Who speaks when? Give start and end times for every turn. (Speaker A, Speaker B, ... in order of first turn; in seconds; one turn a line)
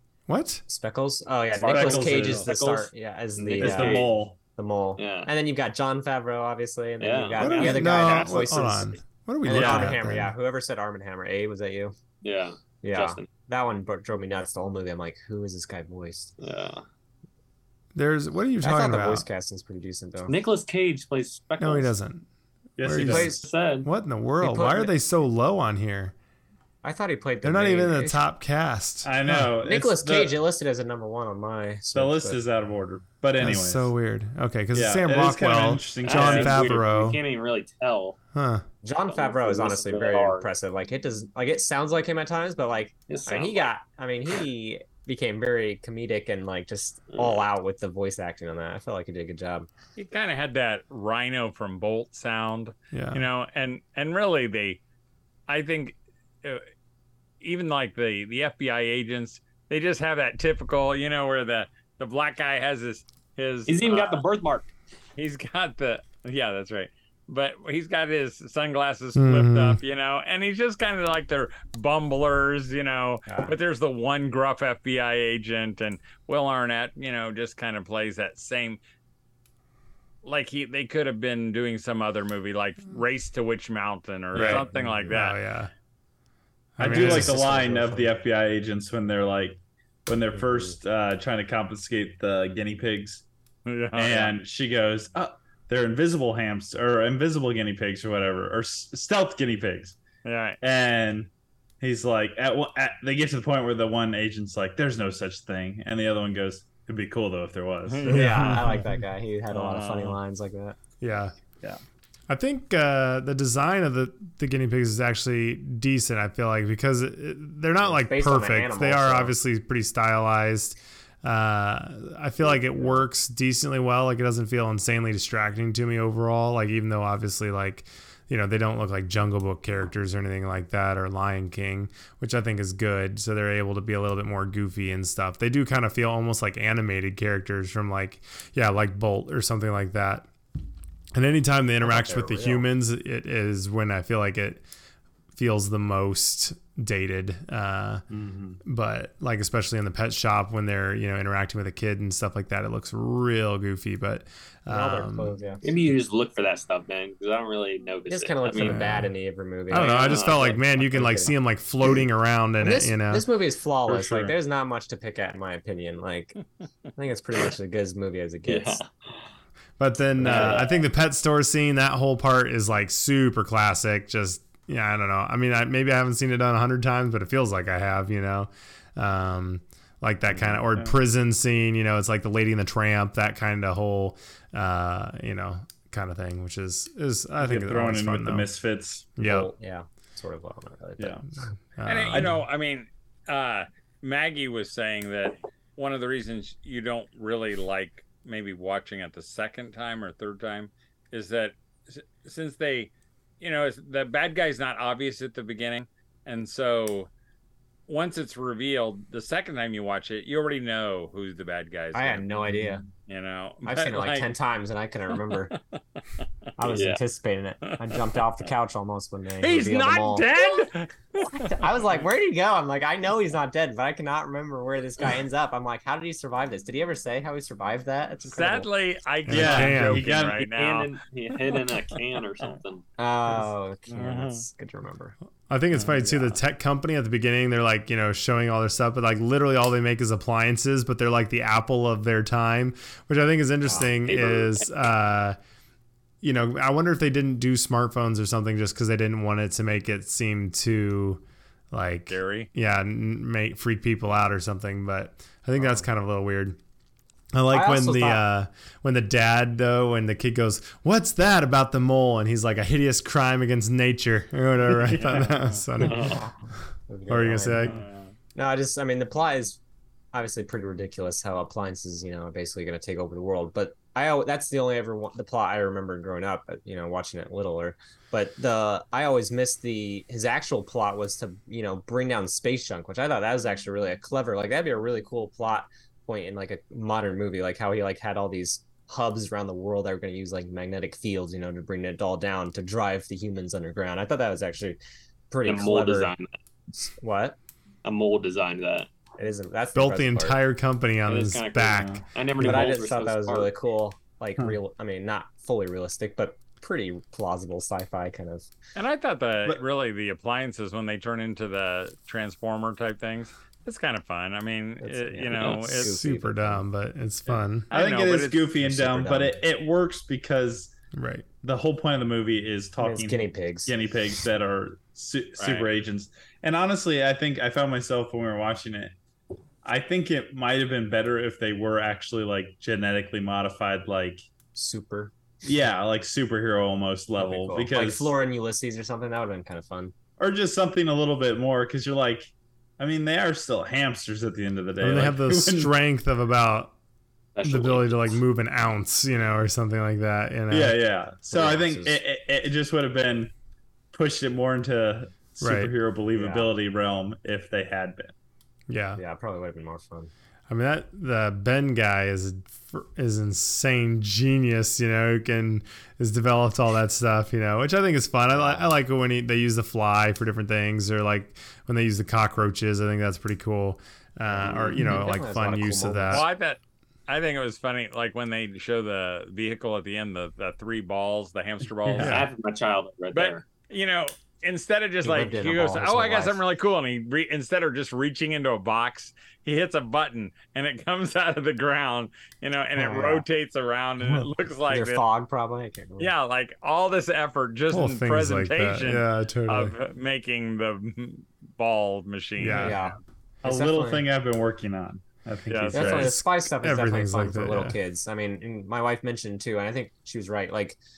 Speaker A: 0.3-0.6
Speaker B: 0.7-11.9
Speaker C: 1.6-2.5
Speaker D: 1.6-4.1
Speaker C: 3.5-4.4
Speaker D: 5.0-5.3
Speaker D: 7.0-8.4
Speaker A: 7.4-10.3
Speaker C: 9.5-9.9
Speaker D: 12.2-13.2
Speaker B: 12.8-16.3
Speaker D: 16.4-16.8
Speaker A: 17.9-19.2
Speaker B: 18.6-20.4
Speaker D: 20.3-21.9
Speaker A: 21.6-22.2
Speaker C: 22.8-23.4
Speaker A: 22.8-26.1
Speaker B: 22.9-23.4
Speaker D: 23.2-23.9
Speaker B: 24.4-24.9
Speaker B: 26.8-28.2
Speaker A: 27.4-29.5
Speaker C: 29.0-30.4
Speaker B: 29.6-32.4
Speaker C: 31.9-33.9
Speaker A: 33.4-37.2
Speaker C: 34.7-36.7
Speaker D: 36.0-38.1
Speaker A: 38.3-38.6
Speaker B: 38.8-49.7
Speaker D: 39.0-40.5
Speaker D: 43.1-43.7
Speaker D: 47.1-47.5
Speaker E: 50.0-54.8
Speaker A: 52.9-53.2
Speaker E: 55.5-56.6
Speaker E: 57.4-64.2
Speaker D: 63.7-64.7
Speaker E: 65.2-78.8
Speaker A: 69.2-69.8
Speaker B: 73.3-73.5
Speaker E: 80.2-85.4
Speaker C: 84.3-84.8
Speaker A: 84.3-85.7
Speaker A: 86.8-87.4
Speaker C: 86.8-93.2
Speaker B: 86.8-88.2
Speaker B: 90.3-90.7
Speaker E: 93.7-94.3
Speaker C: 93.9-100.0
Speaker E: 100.2-100.6
Speaker C: 100.6-101.3
Speaker C: 101.8-108.5
Speaker E: 107.8-108.6
Speaker B: 108.0-110.8
Speaker A: 108.1-108.8
Speaker E: 109.5-110.2
Speaker A: 111.0-111.3
Speaker A: 112.3-140.3
Speaker B: 117.8-119.3
Speaker B: 122.4-123.0
Speaker A: 141.1-144.6
Speaker B: 141.8-142.7
Speaker A: 145.3-148.0
Speaker C: 148.1-148.6
Speaker A: 148.6-155.3
Speaker B: 154.7-155.6
Speaker D: 155.6-158.9
Speaker B: 158.1-161.3
Speaker A: 158.6-159.1
Speaker A: 159.7-163.2
Speaker D: 159.7-160.6
Speaker B: 162.6-166.4
Speaker C: 163.8-164.4
Speaker B: 166.9-168.8
Speaker D: 168.4-169.2
Speaker A: 169.8-188.5
Speaker B: 170.2-170.7
Speaker D: 170.2-170.7
Speaker C: 180.3-180.9
Speaker C: 187.4-189.2
Speaker A: 189.2-189.5
Speaker B: 189.2-191.2
Speaker C: 191.0-191.2
Speaker A: 191.8-192.3
Speaker E: 191.8-207.1
Speaker E: 207.9-212.2
Speaker B: 211.9-212.8
Speaker E: 213.1-214.3
Speaker B: 213.6-215.6
Speaker B: 216.6-220.6
Speaker D: 216.7-217.0
Speaker E: 219.4-221.5
Speaker B: 221.3-228.7
Speaker E: 228.2-231.0
Speaker A: 229.3-230.1
Speaker C: 229.3-230.5
Speaker D: 230.5-232.8
Speaker B: 233.0-235.2
Speaker E: 233.9-234.4
Speaker A: 235.5-245.4
Speaker B: 243.6-243.9
Speaker D: 244.0-244.6
Speaker A: 246.2-256.6
Speaker E: 252.1-252.5
Speaker B: 255.6-255.8
Speaker A: 257.3-266.2
Speaker B: 257.5-258.2
Speaker C: 264.8-265.3
Speaker D: 265.8-266.2
Speaker B: 265.9-266.3
Speaker B: 266.9-267.7
Speaker A: 267.1-267.7
Speaker E: 267.7-268.1
Speaker B: 268.3-269.6
Speaker B: 270.1-294.8
Speaker B: 295.3-296.1
Speaker D: 295.4-296.3
Speaker B: 296.8-297.4
Speaker D: 297.8-298.9
Speaker B: 299.2-300.4
Speaker A: 299.7-302.6
Speaker D: 301.1-303.5
Speaker C: 301.8-302.1
Speaker B: 302.4-308.5
Speaker E: 308.8-315.9
Speaker B: 314.8-316.6
Speaker A: 315.4-317.7
Speaker C: 317.3-320.7
Speaker E: 317.7-318.5
Speaker B: 318.6-319.4
Speaker A: 320.9-321.2
Speaker C: 321.4-328.9
Speaker B: 322.8-323.8
Speaker E: 325.4-325.6
Speaker C: 329.6-334.2
Speaker B: 334.5-335.1
Speaker C: 335.4-338.1
Speaker B: 337.2-339.9
Speaker C: 340.2-345.7
Speaker A: 344.8-346.7
Speaker D: 347.3-348.1
Speaker A: 347.4-350.7
Speaker C: 350.5-353.3
Speaker B: 351.3-352.0
Speaker C: 353.9-358.1
Speaker A: 355.4-355.7
Speaker B: 356.1-356.5
Speaker A: 358.7-359.0
Speaker B: 359.0-360.1
Speaker A: 360.5-376.2
Speaker B: 368.3-368.7
Speaker B: 374.2-376.2
Speaker E: 376.1-382.2
Speaker D: 381.9-383.4
Speaker A: 382.0-382.3
Speaker E: 383.1-395.0
Speaker B: 385.0-386.4
Speaker B: 392.8-393.2
Speaker B: 394.1-396.1
Speaker E: 396.0-402.9
Speaker A: 397.7-399.7
Speaker A: 402.4-402.8
Speaker B: 402.5-404.1
Speaker C: 403.4-406.2
Speaker E: 405.5-406.1
Speaker B: 405.7-410.8
Speaker A: 405.8-407.8